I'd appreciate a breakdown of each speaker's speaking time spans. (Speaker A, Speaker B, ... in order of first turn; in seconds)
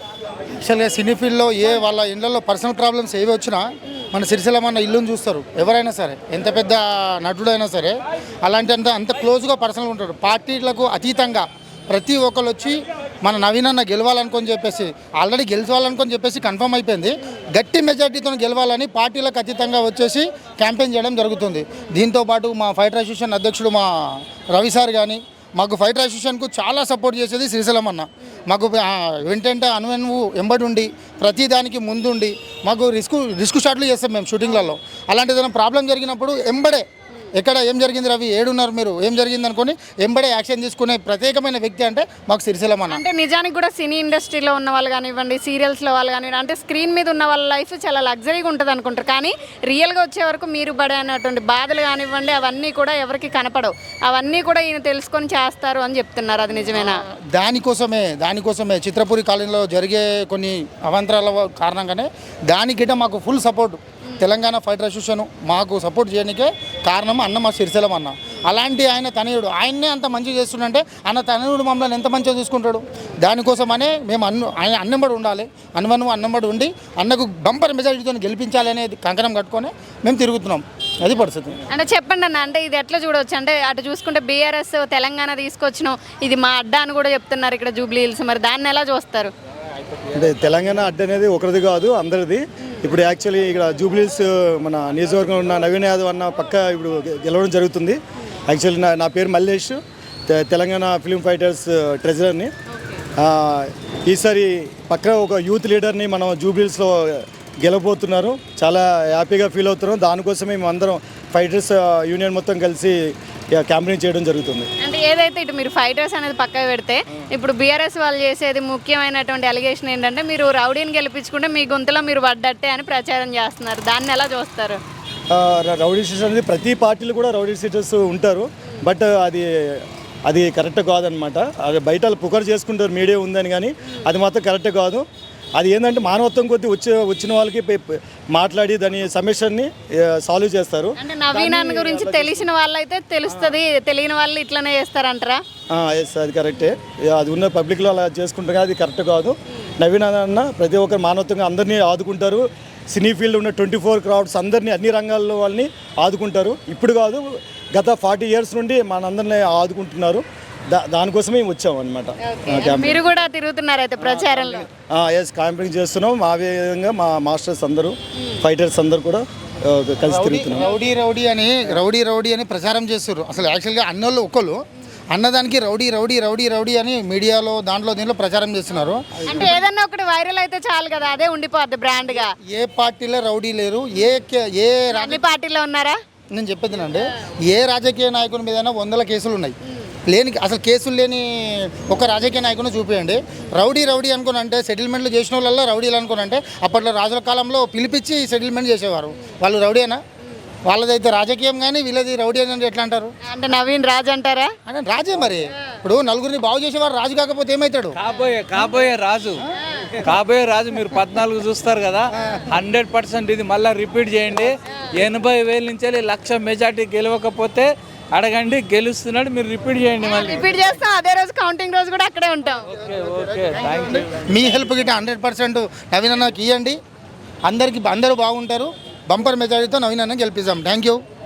Speaker A: 0.6-43.0, 56.7-81.6, 170.1-179.6, 182.5-185.2, 186.3-200.0, 200.7-203.1, 204.7-207.9, 224.2-226.8, 227.4-231.0
Speaker B: 42.9-57.0, 81.7-89.3, 114.8-124.8, 141.0-145.4, 162.3-164.7, 179.2-182.3, 184.9-186.0, 203.2-204.5, 220.0-222.6
Speaker C: 90.1-102.5, 103.2-114.7, 125.3-135.1, 135.6-142.4, 143.3-143.5, 145.7-163.0, 164.0-170.7
Speaker D: 208.0-220.4, 222.7-224.2